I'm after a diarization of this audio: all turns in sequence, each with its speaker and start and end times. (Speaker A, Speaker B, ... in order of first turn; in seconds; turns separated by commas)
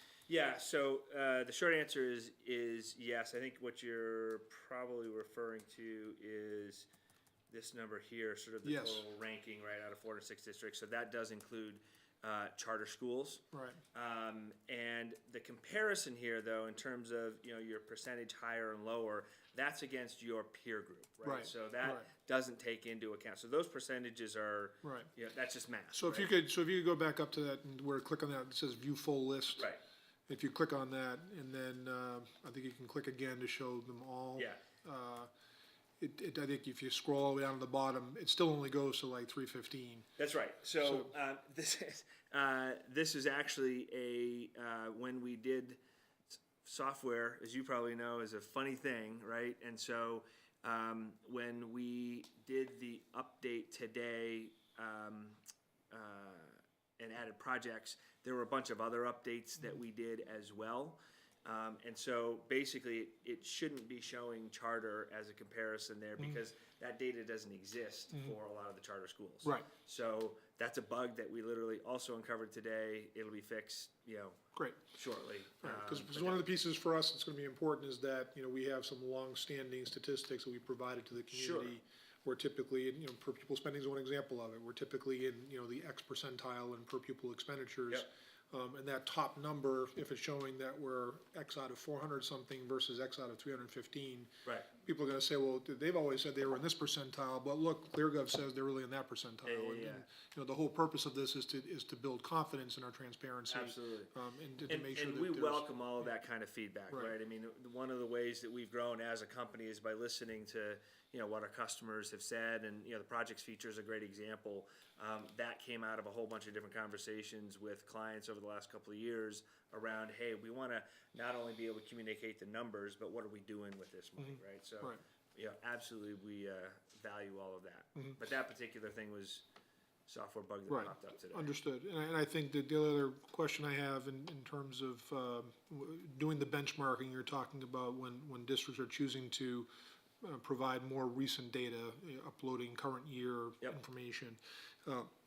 Speaker A: 0.3-6.9, Speaker A: 7.5-13.4, Speaker B: 8.6-9.0, Speaker B: 13.5-13.8, Speaker A: 13.9-26.3, Speaker B: 21.2-22.1, Speaker B: 24.8-25.1, Speaker B: 25.9-29.7, Speaker B: 30.3-35.3, Speaker B: 36.0-40.1, Speaker A: 40.2-45.8, Speaker B: 40.8-41.1, Speaker A: 46.6-55.4, Speaker A: 55.9-74.4, Speaker B: 69.5-69.7, Speaker B: 74.6-74.9, Speaker A: 74.9-76.5, Speaker B: 75.6-105.7, Speaker A: 81.3-81.8, Speaker A: 99.5-100.1, Speaker A: 103.5-104.1, Speaker A: 104.7-129.4, Speaker B: 106.9-107.2, Speaker B: 124.2-125.0, Speaker A: 130.1-131.5, Speaker B: 130.7-139.7, Speaker B: 140.2-145.1